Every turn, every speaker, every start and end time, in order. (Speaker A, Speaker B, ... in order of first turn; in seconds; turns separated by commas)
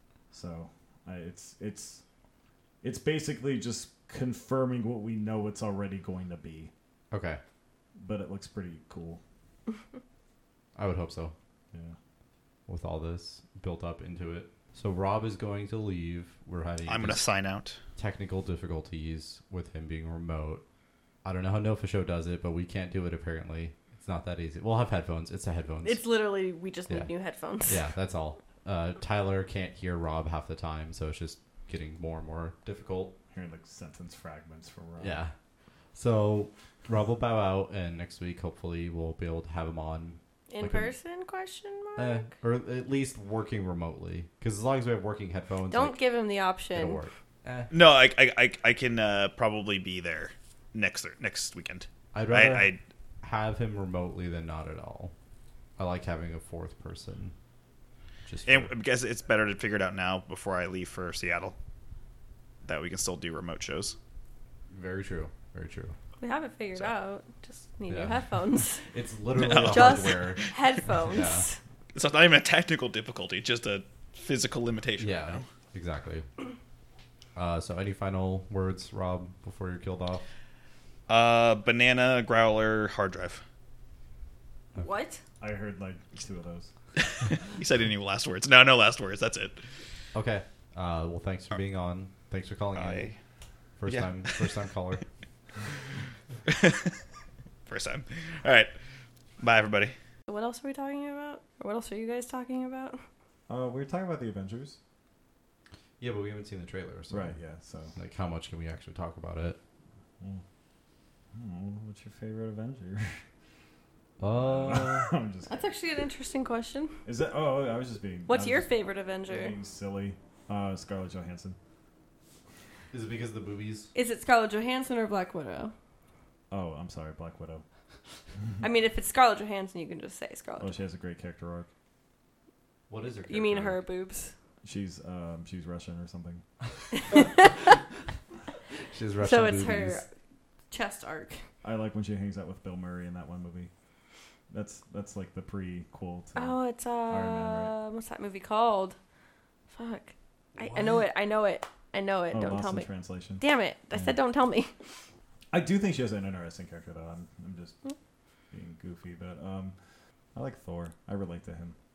Speaker A: 0.3-2.0, Speaker A: 2.8-6.7, Speaker B: 7.1-7.4, Speaker A: 8.0-9.2, Speaker B: 10.8-11.3, Speaker A: 11.7-12.0, Speaker B: 12.7-17.2, Speaker C: 16.9-17.8, Speaker B: 18.0-20.6, Speaker B: 21.2-26.0, Speaker D: 25.8-27.8, Speaker B: 26.9-33.2, Speaker A: 33.3-35.2, Speaker B: 35.0-35.3, Speaker B: 35.9-40.9, Speaker D: 40.5-42.3, Speaker B: 42.0-46.0, Speaker D: 45.7-47.0, Speaker B: 46.7-47.7, Speaker C: 47.7-52.8, Speaker B: 52.1-55.1, Speaker B: 55.8-57.4, Speaker B: 58.3-58.7, Speaker C: 58.5-61.6, Speaker C: 62.6-64.0, Speaker B: 64.7-66.0, Speaker D: 66.2-68.8, Speaker B: 67.9-71.5, Speaker C: 69.3-70.6, Speaker D: 69.5-71.6, Speaker C: 71.9-75.5, Speaker B: 75.0-76.3, Speaker B: 77.4-80.2, Speaker C: 81.1-83.4, Speaker D: 84.8-85.2, Speaker A: 85.4-86.7, Speaker C: 87.0-89.6, Speaker B: 90.1-93.1, Speaker C: 92.8-93.2, Speaker B: 93.8-95.0, Speaker C: 93.9-94.6, Speaker C: 96.5-97.0, Speaker C: 97.7-98.8, Speaker C: 99.4-100.0, Speaker D: 100.3-103.0, Speaker A: 103.5-104.8, Speaker B: 106.0-107.4, Speaker A: 107.1-107.9, Speaker B: 108.0-109.6, Speaker A: 111.3-113.2, Speaker B: 114.2-115.1, Speaker A: 114.3-115.7, Speaker D: 115.5-117.0, Speaker A: 117.0-118.7, Speaker D: 118.3-119.6, Speaker A: 119.3-121.6, Speaker B: 122.9-123.9, Speaker D: 124.0-125.7, Speaker A: 126.5-127.6, Speaker D: 128.6-130.8, Speaker A: 130.6-131.7, Speaker B: 132.9-133.8, Speaker D: 133.3-134.3, Speaker A: 134.6-136.4, Speaker D: 136.9-137.8, Speaker B: 138.8-140.0, Speaker D: 139.2-140.1, Speaker D: 140.7-141.4, Speaker A: 141.6-143.7, Speaker A: 144.5-147.8, Speaker D: 146.3-149.0, Speaker D: 149.7-154.8, Speaker B: 150.6-151.1, Speaker A: 152.3-153.4, Speaker A: 155.5-157.8, Speaker A: 158.5-159.8, Speaker A: 160.3-161.8